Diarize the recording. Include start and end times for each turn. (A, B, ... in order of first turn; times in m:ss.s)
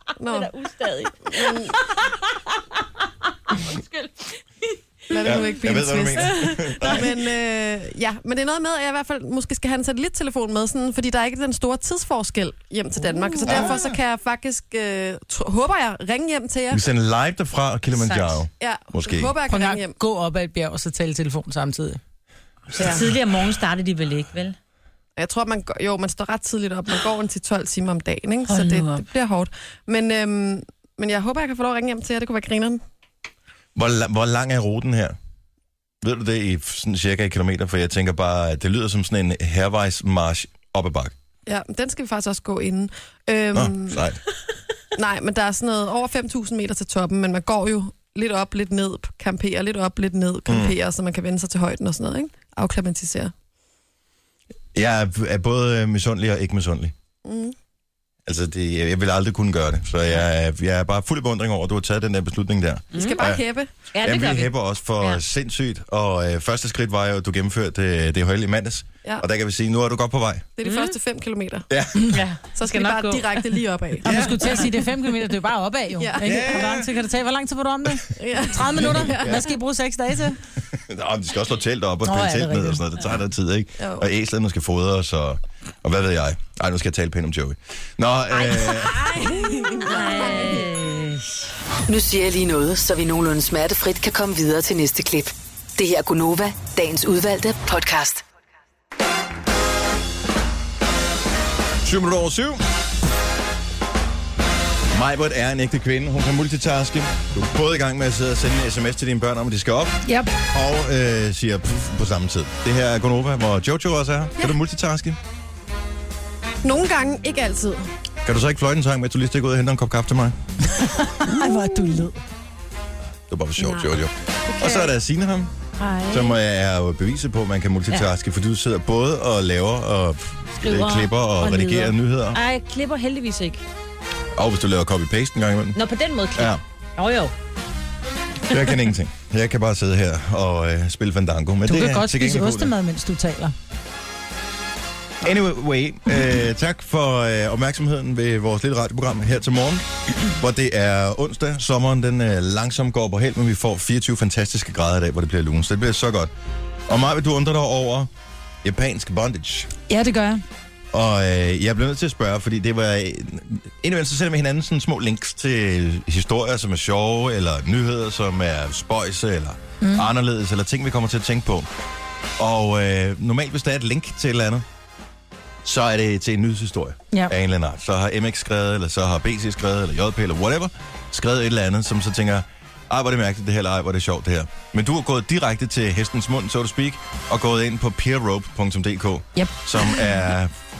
0:00.2-0:00.5 A
0:00.3-0:02.1 B
0:01.2-0:01.8 A
0:03.5-0:04.3 B
0:05.1-0:16.8 A
0:05.2-0:05.5 B
0:05.2-0:07.2 C
0:06.2-0:06.4 B
0:13.1-0:13.7 B
0:13.5-0:14.0 C
0:16.7-0:19.4 C
0:18.0-0:18.4 B
0:18.6-0:20.0 A
0:19.5-0:22.0 D
0:22.8-0:24.6 B
0:22.8-0:23.0 A
0:25.2-0:32.8 A
0:28.5-0:29.0 B
0:33.8-0:35.2 C
0:36.0-0:41.1 C
0:41.5-0:44.1 A
0:43.5-0:44.2 C
0:45.0-0:53.3 A
0:50.5-0:50.8 C
0:54.7-0:56.9 C
0:57.2-0:57.6 A
0:58.3-1:03.4 C
1:02.9-1:03.2 B
1:02.9-1:03.7 A
1:03.9-1:05.2 B
1:04.0-1:10.5 C
1:10.6-1:11.7 A
1:10.6-1:11.0 B
1:11.7-1:12.2 C
1:12.1-1:13.6 B
1:12.6-1:14.2 A
1:14.0-1:14.4 C
1:14.0-1:20.4 D
1:16.0-1:16.6 A
1:16.2-1:16.9 C
1:18.2-1:19.4 A
1:18.9-1:19.4 C
1:20.7-1:29.2 C
1:22.0-1:22.8 D
1:23.8-1:24.1 A
1:29.1-1:30.7 A
1:29.6-1:31.5 B
1:31.9-1:38.2 E
1:41.8-1:42.6 C
1:44.9-1:55.2 C
1:50.0-1:50.3 D
1:56.6-1:57.9 A
1:58.2-2:00.4 C
2:00.7-2:02.2 D
2:03.3-2:05.5 C
2:05.8-2:06.4 B
2:06.1-2:12.4 C
2:10.6-2:13.6 B
2:14.4-2:15.8 C
2:15.8-2:17.3 B
2:16.4-2:16.6 C
2:18.5-2:22.7 C
2:21.7-2:23.5 D
2:25.2-2:36.3 C
2:36.9-2:38.1 C
2:38.6-2:39.7 C
2:39.9-2:40.4 D
2:40.9-2:51.7 C
2:49.8-2:50.1 D
2:52.4-2:54.6 C
2:55.6-3:10.6 C